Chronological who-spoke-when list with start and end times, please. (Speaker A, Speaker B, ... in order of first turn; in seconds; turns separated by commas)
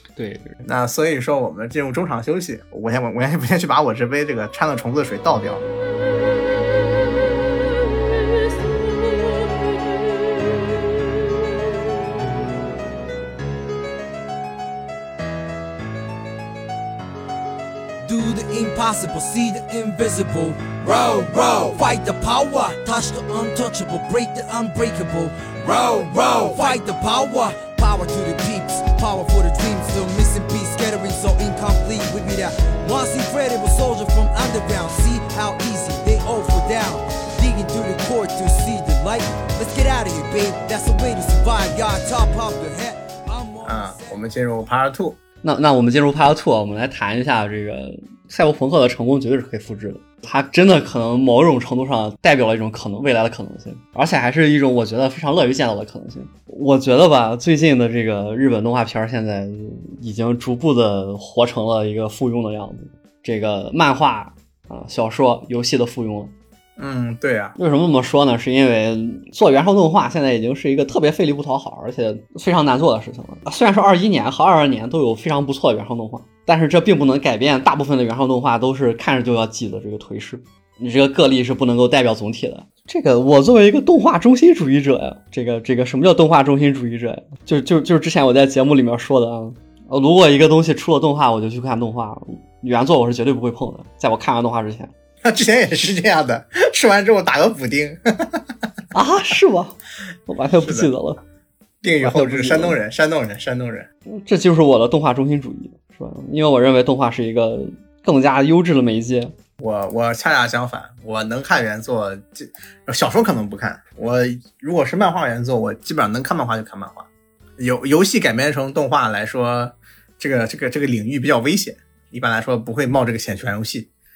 Speaker A: 0.1-0.5, Speaker B: 0.6-5.6, Speaker C: 18.0-44.1, Speaker B: 43.6-45.2, Speaker A: 45.4-66.3, Speaker B: 66.8-67.6, Speaker A: 67.6-94.9, Speaker B: 95.2-98.4, Speaker A: 98.9-101.2, Speaker B: 100.6-100.9, Speaker B: 101.8-103.9, Speaker A: 102.0-102.8, Speaker A: 104.0-109.3, Speaker B: 109.6-117.1, Speaker B: 117.6-123.9